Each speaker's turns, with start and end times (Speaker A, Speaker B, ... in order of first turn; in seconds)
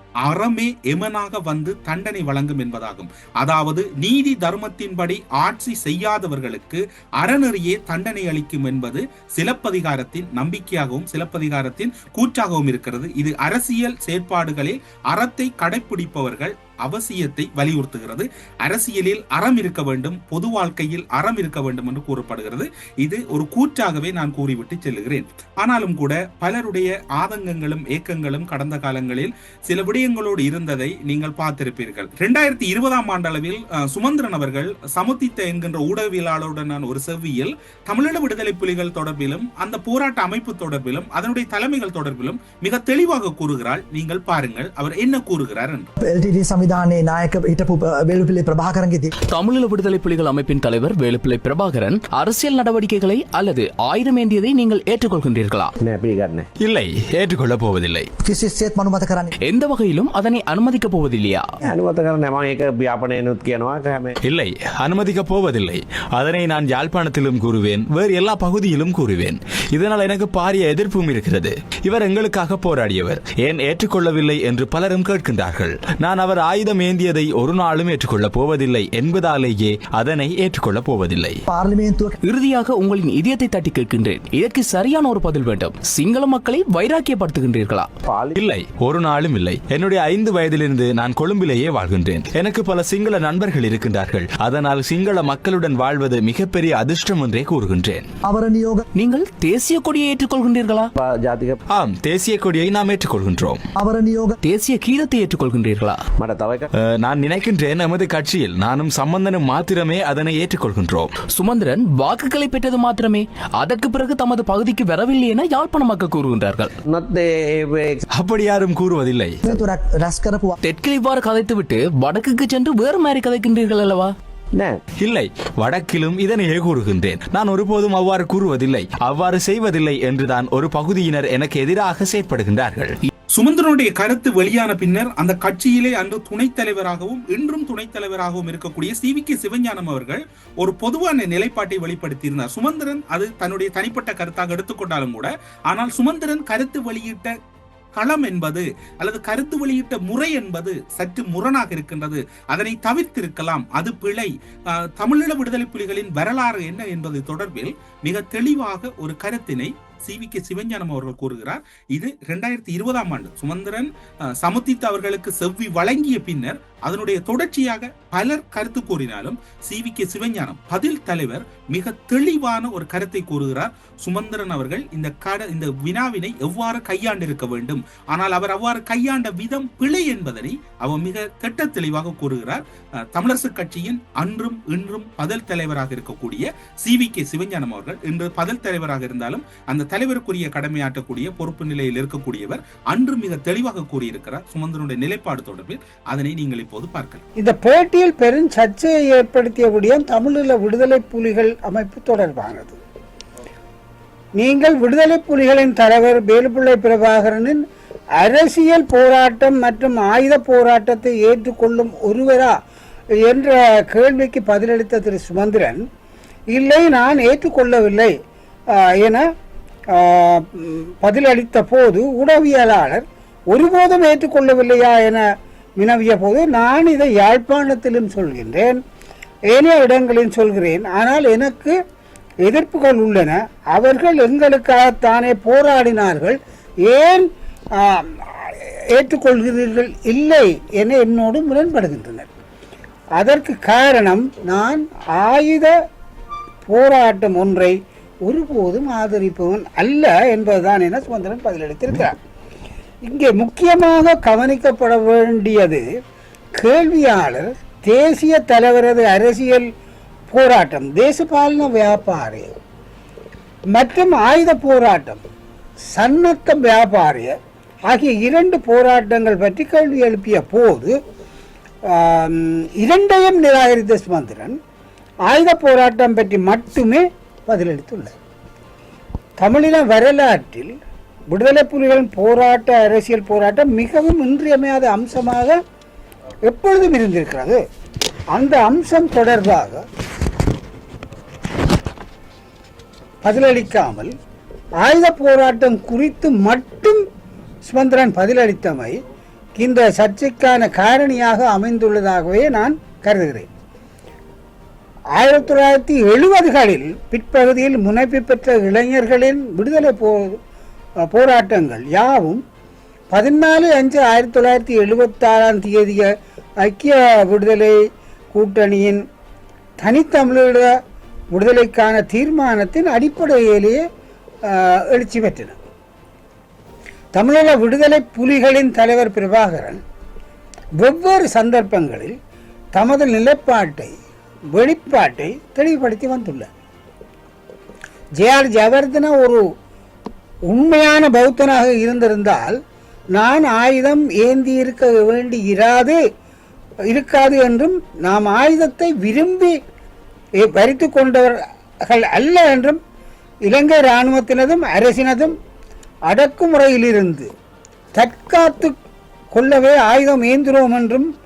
Speaker A: 0.2-45.9, 133.3-147.3, 148.0-197.2
Speaker B: 46.0-49.1, 58.2-59.3, 81.5-82.2, 98.2-98.9, 103.8-104.4, 119.4-120.6
Speaker C: 49.3-55.7, 59.4-61.5, 82.2-87.9, 99.0-100.9, 104.4-106.0, 111.3-116.7, 120.6-124.1
Speaker D: 55.8-56.5, 61.6-64.2, 88.1-88.4, 101.0-101.6, 106.2-106.7, 116.8-118.0, 124.5-124.8
Speaker E: 56.6-58.1, 64.2-81.4, 88.4-98.1, 101.7-103.7, 106.8-111.2, 118.1-119.4, 125.0-133.0
Speaker F: 197.4-202.8, 204.4-207.6, 208.2-212.6, 213.2-215.8, 216.5-218.1, 218.8-219.2, 219.9-225.2, 225.8-228.8, 229.5-231.8, 232.4-237.3, 237.8-242.3, 243.2-245.7, 246.7-252.2, 253.1-255.8, 256.6-259.7, 260.3-262.5, 263.7-265.2, 265.9-267.4, 267.9-270.9, 271.9-274.6, 275.3-278.1, 279.4-280.8, 281.3-285.6, 286.5-287.6, 288.4-289.8, 293.2-294.1, 294.8-297.1, 297.7-299.0, 299.6-303.5, 305.2-310.4, 311.1-312.4, 313.1-317.8, 318.3-319.0, 319.8-320.7, 321.3-323.8, 324.5-325.6, 327.2-329.8, 330.8-332.1, 332.8-333.9, 334.5-336.5, 338.2-339.4, 340.5-342.6, 343.2-346.0, 346.9-349.6, 350.4-352.8, 353.5-355.4, 356.1-357.3, 358.0-358.8, 359.3-361.1